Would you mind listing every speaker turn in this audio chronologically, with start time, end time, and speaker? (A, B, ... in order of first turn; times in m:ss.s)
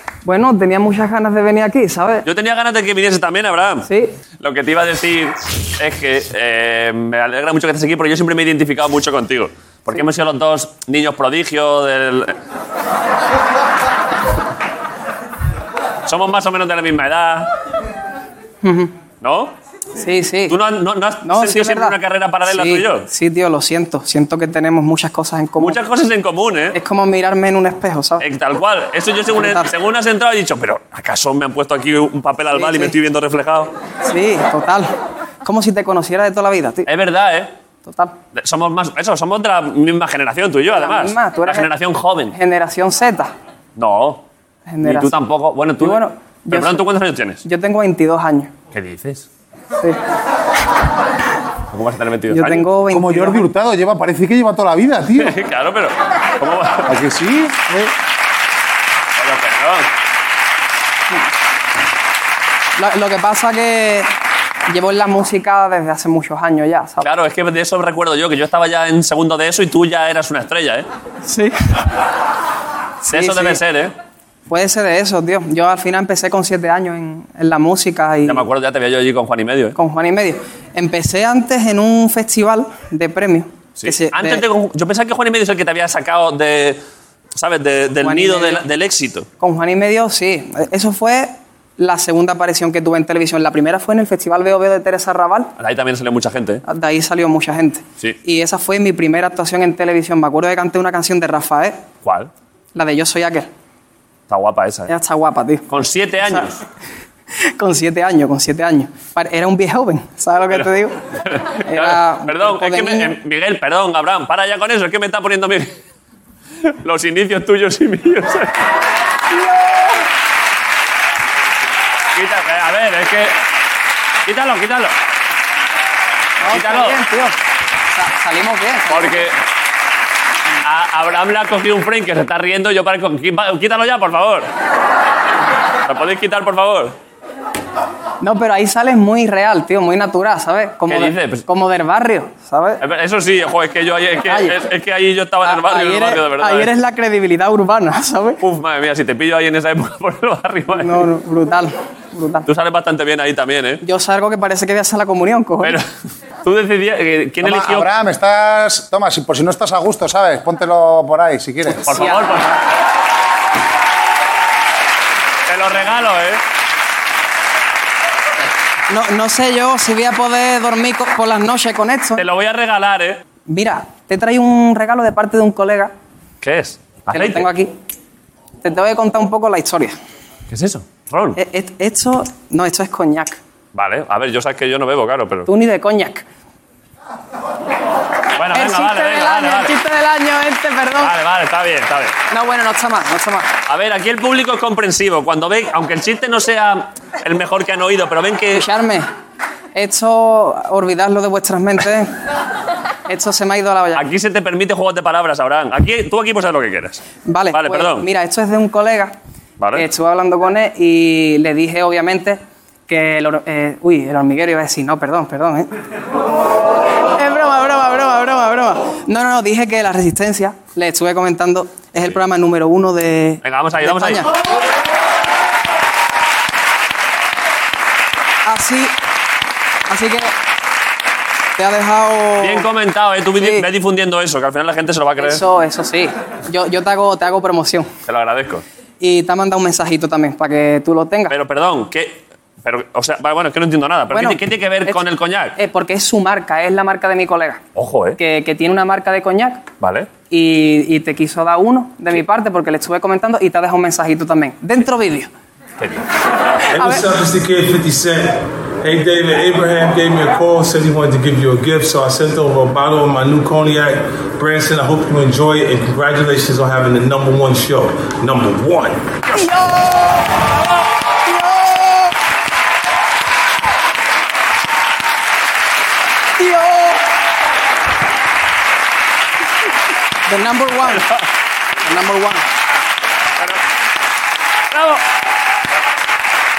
0:00.2-0:02.2 A
0:02.2-0:12.4 B
0:16.0-0:17.5 B
0:18.6-0:18.9 A
0:19.2-0:19.5 B
0:20.0-0:20.5 A
0:20.5-0:23.1 B
0:21.2-0:22.0 A
0:22.5-0:25.8 A
0:25.6-0:26.8 B
0:26.7-0:28.2 A
0:28.2-0:33.7 B
0:29.4-0:29.7 A
0:32.5-0:32.9 A
0:34.0-0:34.9 A
0:35.4-0:36.8 A
0:36.8-0:37.5 B
0:37.8-0:38.1 A
0:38.3-0:42.4 B
0:40.7-0:41.7 A
0:42.3-0:43.3 A
0:43.8-0:44.2 B
0:44.7-0:45.2 A
0:44.8-0:47.4 B
0:45.8-0:46.8 A
0:47.4-0:48.5 A
0:48.7-0:49.3 B
0:51.7-0:52.6 B
0:52.3-0:53.4 A
0:52.9-0:55.4 C
0:55.2-0:56.9 B
0:56.8-0:57.9 C
0:59.2-0:59.9 B
1:02.8-1:04.1 A
1:04.7-1:07.1 A
1:07.0-1:10.8 B
1:11.2-1:11.5 A
1:13.0-1:13.6 A
1:13.0-1:13.9 B
1:14.5-1:18.4 A
1:18.2-1:19.8 B
1:19.8-1:24.4 A
1:23.8-1:26.8 B
1:27.4-1:29.3 B
1:28.0-1:28.6 A
1:29.4-1:35.5 A
1:35.6-1:36.6 B
1:36.7-1:41.8 A
1:42.0-1:42.3 B
1:42.7-1:43.5 A
1:44.3-1:44.9 B
1:44.9-1:45.6 A
1:45.7-1:46.6 B
1:47.6-1:50.9 A
1:51.2-1:55.7 B
1:51.6-1:53.1 A
1:56.8-1:58.5 B
1:59.3-1:59.9 A
2:02.1-2:03.3 B
2:04.2-2:04.9 B
2:06.4-2:07.3 A
2:06.5-2:07.0 B
2:07.9-2:09.3 A
2:08.9-2:09.4 B
2:10.6-2:14.5 B
2:15.8-2:17.0 B
2:18.2-2:22.8 A
2:20.8-2:21.5 B
2:22.8-2:26.7 B
2:24.3-2:24.5 A
2:25.4-2:28.4 A
2:28.4-2:31.1 B
2:30.8-2:32.4 A
2:32.4-2:33.8 B
2:33.8-2:35.8 A
2:35.6-2:35.8 B
2:36.4-2:37.9 B
2:37.4-2:41.9 C
2:41.8-2:42.5 B
2:41.9-2:42.6 A
2:45.5-2:46.4 B
2:48.9-2:52.2 A
2:52.2-2:53.2 B
2:53.5-2:55.9 A
2:56.4-2:57.5 B
2:57.1-2:57.7 A
2:58.6-3:00.0 A
3:00.5-3:01.4 B
3:01.4-3:03.4 A
3:03.7-3:05.5 B
3:05.5-3:06.2 A
3:08.3-3:09.8 B
3:08.5-3:11.1 A
3:10.9-3:12.2 B
3:12.3-3:13.5 A
3:13.7-3:18.7 B
3:18.5-3:19.0 A
3:19.7-3:22.1 A
3:23.1-3:24.0 A
3:23.9-3:28.1 B
3:27.2-3:29.1 A
3:29.6-3:29.9 B
3:29.8-3:35.7 A
3:37.2-3:44.3 A
3:43.4-3:44.3 B
3:48.4-3:48.9 A
3:49.9-3:50.3 A
3:51.6-3:52.6 A
3:52.4-3:55.4 B
3:53.4-3:53.6 A
3:55.2-3:57.9 A
3:58.0-3:58.6 B
3:59.0-4:01.3 A
4:01.3-4:05.6 B
4:04.1-4:05.0 A
4:05.6-4:07.6 A
4:07.7-4:08.2 B
4:08.2-4:09.6 A
4:09.8-4:10.1 B
4:10.3-4:15.3 A
4:16.7-4:29.2 D
4:16.8-4:17.0 A
4:29.3-4:30.3 A
4:31.2-4:32.1 A
4:36.4-4:37.0 A
4:40.3-4:41.1 A
4:41.8-4:42.4 A
4:44.7-4:45.0 B